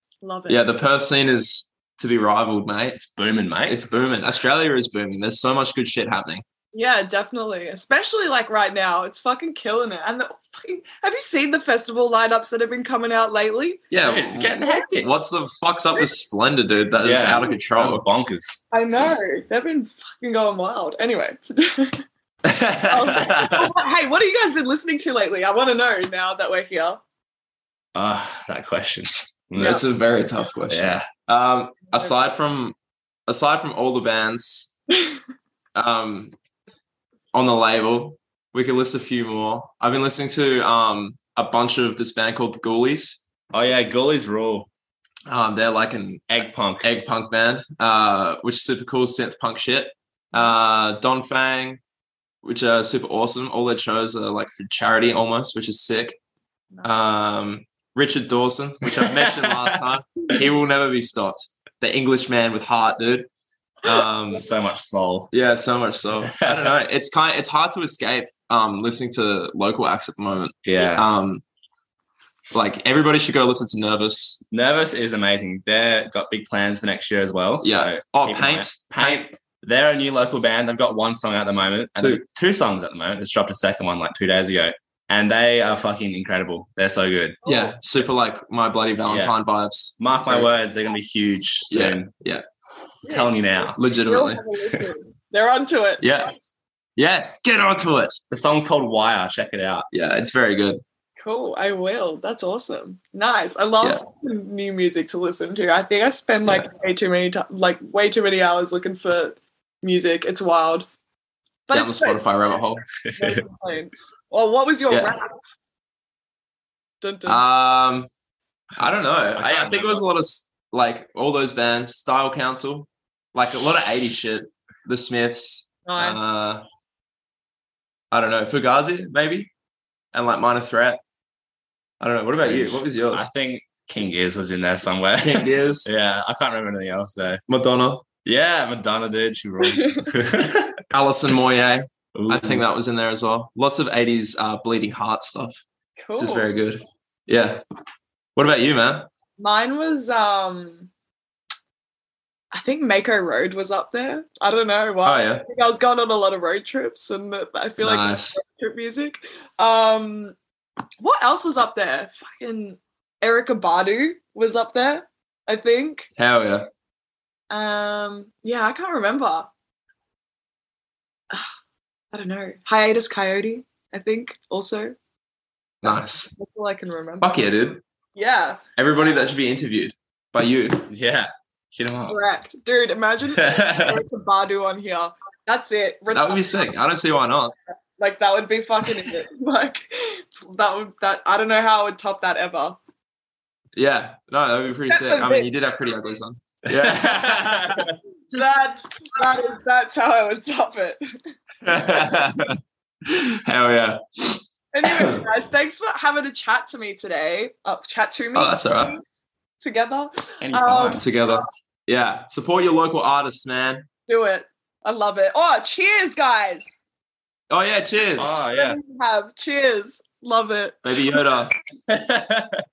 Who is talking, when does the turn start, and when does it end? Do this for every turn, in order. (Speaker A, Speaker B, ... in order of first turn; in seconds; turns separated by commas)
Speaker A: 0.2-0.6, Speaker B: 0.5-3.0, Speaker C: 3.0-3.8, Speaker B: 3.7-6.4, Speaker A: 6.7-13.9, Speaker B: 13.9-18.0, Speaker C: 14.0-15.1, Speaker C: 17.0-18.6, Speaker A: 18.7-22.0, Speaker B: 22.5-23.6, Speaker A: 22.9-27.0, Speaker C: 27.9-29.8, Speaker B: 29.6-32.8, Speaker C: 30.7-31.1, Speaker B: 33.3-34.7, Speaker B: 35.8-36.3, Speaker B: 37.3-43.2, Speaker C: 43.5-44.7, Speaker B: 45.3-51.8, Speaker C: 46.3-46.9, Speaker B: 52.4-56.2, Speaker B: 56.8-63.3, Speaker C: 58.9-59.8, Speaker B: 63.8-64.5, Speaker C: 64.3-65.3, Speaker B: 65.3-71.4, Speaker C: 66.3-66.7, Speaker C: 70.7-71.1, Speaker B: 72.5-74.4, Speaker C: 74.5-87.4, Speaker B: 77.6-79.2, Speaker B: 82.0-82.2, Speaker A: 87.5-87.8, Speaker B: 87.5-90.5, Speaker C: 89.1-89.3, Speaker C: 90.0-92.1, Speaker B: 91.7-92.4, Speaker A: 93.0-96.3, Speaker C: 93.1-93.8, Speaker B: 93.8-94.4, Speaker B: 96.0-96.3, Speaker B: 97.0-98.2, Speaker C: 98.3-99.9, Speaker B: 99.9-100.8, Speaker A: 101.2-110.9, Speaker A: 111.7-112.2, Speaker B: 111.7-112.8, Speaker C: 113.0-113.4, Speaker A: 113.2-115.5, Speaker B: 114.9-115.2, Speaker A: 117.0-117.4, Speaker B: 117.3-118.1, Speaker C: 118.8-120.1, Speaker B: 118.8-126.6, Speaker A: 125.9-126.2, Speaker B: 128.1-129.5, Speaker B: 130.1-131.0, Speaker B: 132.0-133.3, Speaker C: 132.4-137.4, Speaker B: 135.2-135.9, Speaker B: 137.5-138.1, Speaker C: 138.2-140.8, Speaker A: 139.8-140.1, Speaker B: 140.9-145.6, Speaker C: 142.2-142.6, Speaker A: 146.0-146.5, Speaker B: 146.2-147.6, Speaker B: 148.3-149.1, Speaker A: 149.4-150.9, Speaker A: 152.5-160.4, Speaker B: 155.0-155.4, Speaker B: 157.8-158.4, Speaker A: 161.0-166.1, Speaker B: 166.2-166.7, Speaker A: 167.5-169.5, Speaker A: 172.1-174.9, Speaker B: 175.8-176.3, Speaker A: 176.4-177.4, Speaker B: 177.2-177.8, Speaker A: 178.2-178.6, Speaker B: 178.8-180.8, Speaker C: 180.9-182.2, Speaker A: 182.1-186.6, Speaker C: 183.4-184.0, Speaker B: 186.1-187.5, Speaker A: 188.0-192.8, Speaker B: 193.8-197.9, Speaker A: 194.9-195.5, Speaker C: 196.7-197.9, Speaker A: 198.3-201.1, Speaker B: 201.6-205.2, Speaker A: 204.7-209.0, Speaker B: 208.3-209.0, Speaker A: 209.6-211.1, Speaker C: 210.4-211.1, Speaker B: 211.0-213.9, Speaker A: 214.1-216.9, Speaker B: 217.5-218.4, Speaker C: 218.2-218.8, Speaker A: 218.5-221.1, Speaker B: 220.8-221.5, Speaker C: 221.9-222.6